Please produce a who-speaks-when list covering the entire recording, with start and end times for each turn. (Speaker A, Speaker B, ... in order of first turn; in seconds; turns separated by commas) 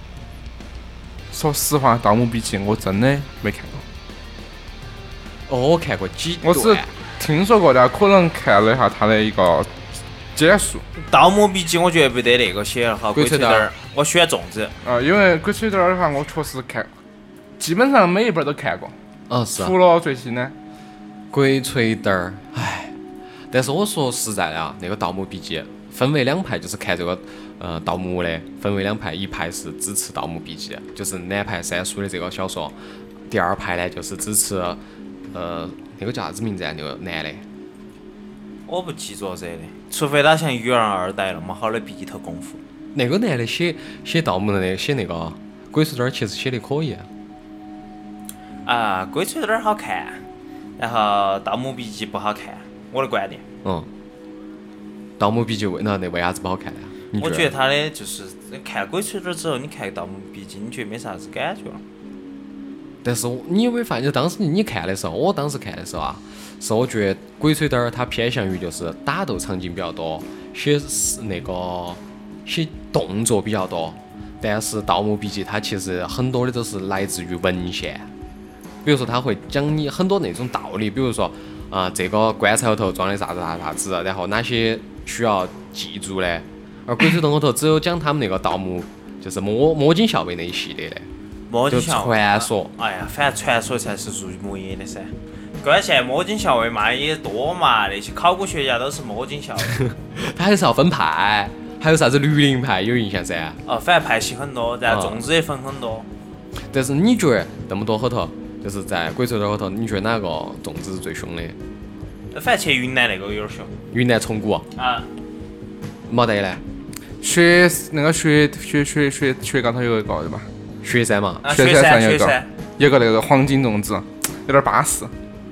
Speaker A: 1.3-3.8, Speaker B: 5.5-6.9, Speaker A: 6.4-9.7, Speaker A: 10.3-10.8, Speaker C: 11.0-14.7, Speaker B: 13.1-13.7, Speaker A: 14.8-16.9, Speaker A: 17.6-18.9, Speaker B: 19.3-19.8, Speaker A: 19.6-20.5, Speaker B: 21.3-22.9, Speaker B: 23.5-32.8, Speaker B: 33.3-34.8, Speaker B: 35.3-37.4, Speaker C: 38.7-42.6, Speaker B: 42.9-47.1, Speaker C: 48.6-50.2, Speaker C: 50.8-53.4, Speaker B: 53.6-53.9, Speaker B: 55.2-57.5, Speaker C: 57.2-61.8, Speaker B: 63.0-78.1, Speaker B: 78.8-91.1, Speaker C: 91.5-99.8, Speaker B: 91.7-92.7, Speaker B: 99.8-103.6, Speaker C: 103.7-106.1, Speaker B: 104.9-105.2, Speaker B: 106.6-111.6, Speaker C: 112.3-113.7, Speaker B: 113.9-114.7, Speaker C: 114.8-115.1, Speaker B: 116.1-116.6, Speaker A: 117.2-120.5, Speaker B: 120.8-121.4, Speaker C: 121.4-122.5, Speaker A: 121.5-125.1